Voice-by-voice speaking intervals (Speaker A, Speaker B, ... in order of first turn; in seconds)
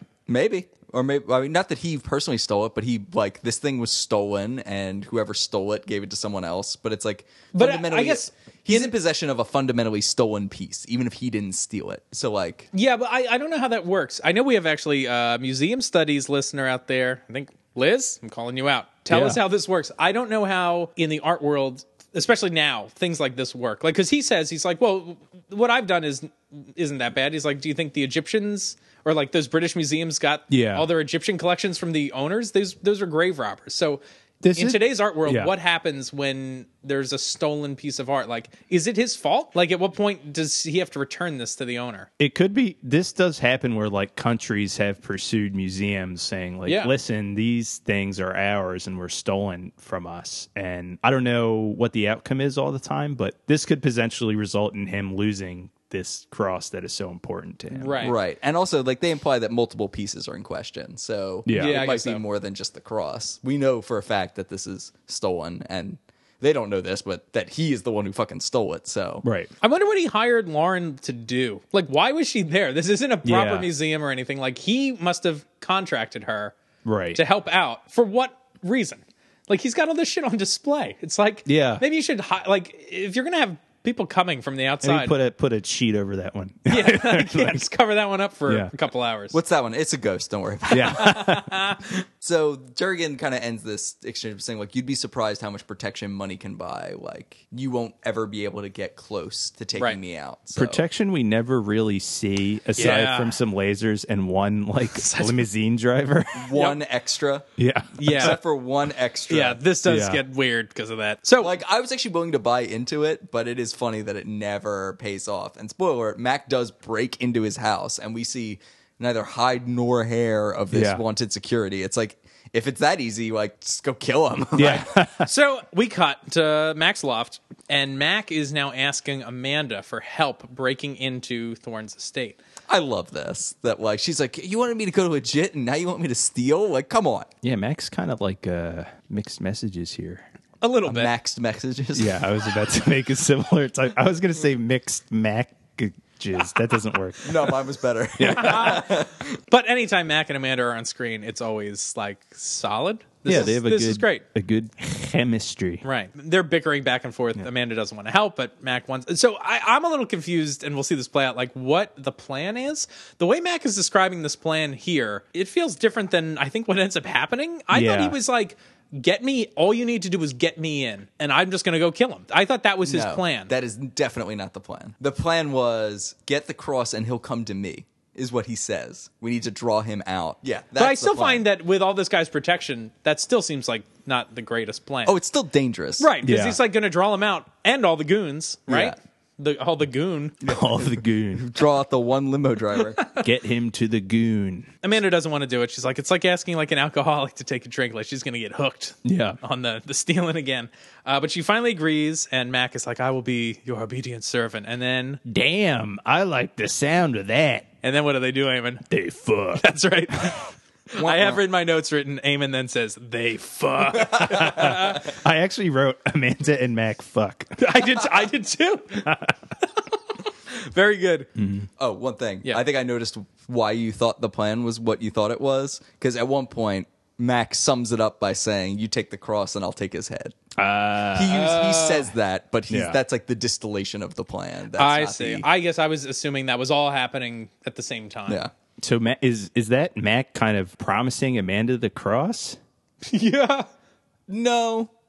Speaker A: 0.3-12.7, 58.0-69.2, 89.3-91.3, 92.2-100.8, 106.3-107.5, 108.0-109.6, 111.4-124.9, 132.7-137.3, 140.9-142.2, 147.2-149.3, 172.8-181.4, 185.1-186.1, 188.7-188.9, 190.4-193.1, 211.0-211.4, 221.8-230.3, 231.1-235.4, 244.3-244.9
Speaker B: 7.5-8.9, 12.7-34.0, 34.5-42.1, 46.6-46.9, 57.7-58.1, 61.5-62.2, 69.6-76.5, 77.1-85.2, 86.7-89.4, 90.9-91.9, 102.8-103.4, 104.9-105.4, 108.0-108.4, 109.3-111.5, 125.2-132.4, 140.6-141.1, 148.3-148.9, 149.5-154.2, 155.8-173.5, 180.8-185.2, 186.0-190.4, 194.8-205.2, 207.8-208.8, 209.5-215.0, 217.6-219.2, 220.5-221.3, 231.3-232.1, 234.8-238.4, 243.1-243.7
Speaker C: 19.1-19.4, 30.5-30.9, 34.4-35.5, 42.2-58.1, 61.5-61.8, 69.2-69.5, 73.2-73.7, 76.8-77.2, 81.5-81.8, 84.8-87.6, 90.7-91.5, 100.5-106.5, 107.6-108.4, 109.8-110.2, 120.7-121.0, 124.5-125.3, 137.4-140.3, 141.9-147.6, 148.2-148.8, 153.2-155.8, 167.7-168.2, 186.2-186.6, 190.4-191.5, 193.2-194.7, 199.0-199.4, 205.2-207.7, 208.9-209.7, 214.2-217.6, 221.3-221.7, 230.6-231.6, 232.7-233.0, 238.8-242.6